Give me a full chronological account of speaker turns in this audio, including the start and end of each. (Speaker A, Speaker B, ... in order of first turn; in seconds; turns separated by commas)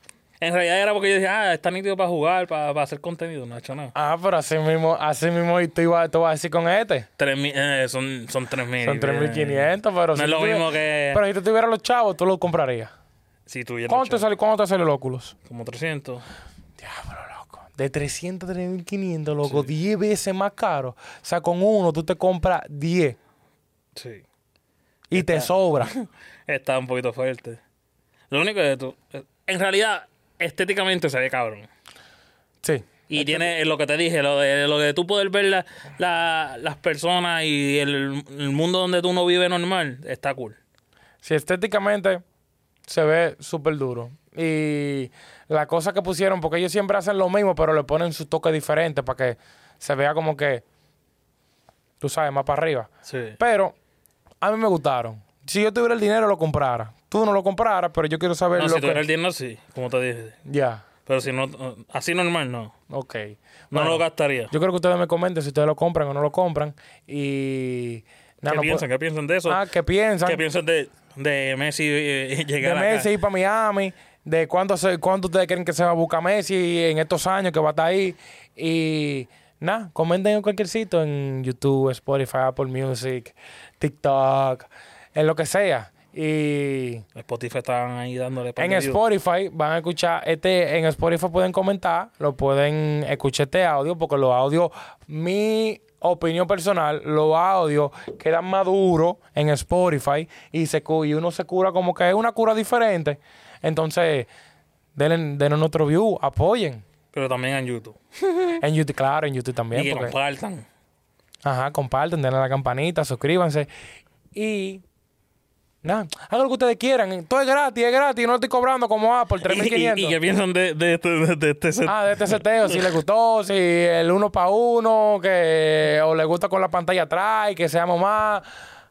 Speaker A: 0.4-3.9, Speaker B: 3.9-7.0, Speaker A: 7.2-11.2, Speaker B: 8.8-12.9, Speaker A: 13.5-14.2, Speaker B: 13.9-15.3, Speaker A: 15.4-16.2, Speaker B: 16.8-23.2, Speaker A: 23.9-24.2, Speaker B: 25.1-25.9, Speaker A: 25.1-27.6, Speaker A: 28.3-31.7, Speaker B: 32.6-33.5, Speaker A: 33.1-40.6, Speaker B: 41.2-42.2, Speaker B: 42.9-50.6, Speaker B: 52.0-53.7, Speaker A: 53.0-53.4, Speaker B: 54.4-59.0, Speaker A: 58.5-60.4, Speaker B: 60.5-60.8, Speaker A: 61.0-62.7, Speaker B: 62.9-68.8, Speaker A: 63.7-64.5, Speaker A: 68.5-69.6, Speaker B: 69.5-70.4, Speaker A: 70.2-73.1, Speaker B: 72.6-87.0, Speaker A: 87.2-89.0, Speaker B: 88.6-104.3, Speaker B: 105.0-106.8, Speaker A: 107.1-108.6, Speaker B: 108.6-110.1, Speaker A: 109.7-110.7, Speaker B: 111.4-113.7, Speaker B: 114.3-114.8, Speaker B: 115.8-120.2, Speaker A: 119.4-122.8, Speaker B: 121.9-128.4